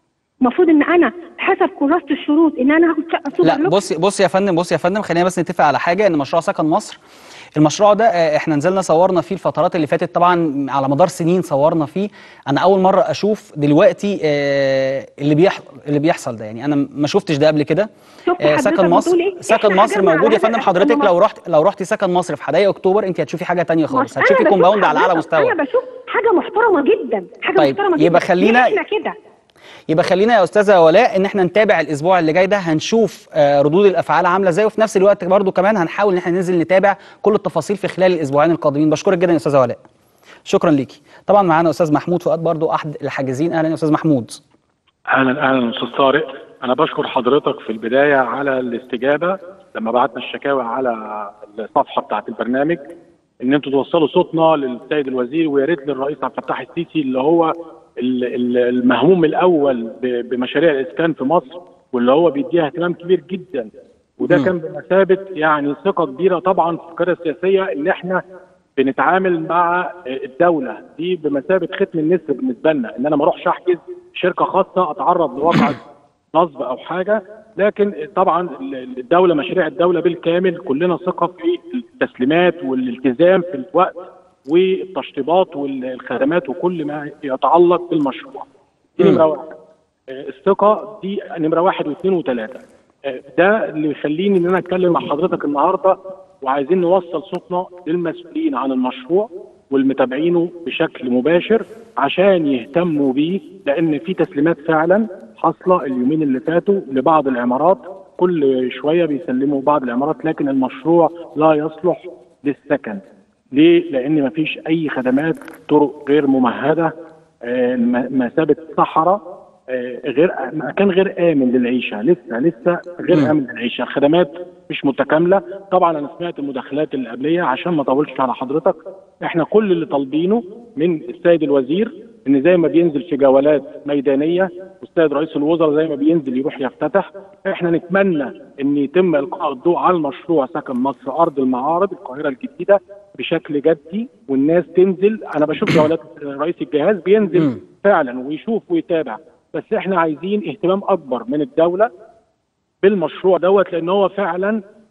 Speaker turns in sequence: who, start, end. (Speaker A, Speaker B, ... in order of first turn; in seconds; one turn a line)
Speaker A: 0.4-3.8
Speaker B: 3.4-7.0
Speaker B: 7.6-17.9
Speaker A: 18.3-21.1
Speaker B: 18.4-25.6
Speaker A: 23.9-29.1
Speaker B: 27.6-28.8
Speaker B: 29.9-39.8
Speaker B: 40.5-44.4
Speaker C: 45.1-52.8
Speaker C: 53.4-68.2
Speaker C: 68.8-75.8
Speaker C: 76.3-88.5
Speaker C: 89.0-89.5
Speaker C: 90.1-113.0
Speaker C: 113.5-116.9
Speaker C: 117.5-151.9
Speaker C: 152.8-154.6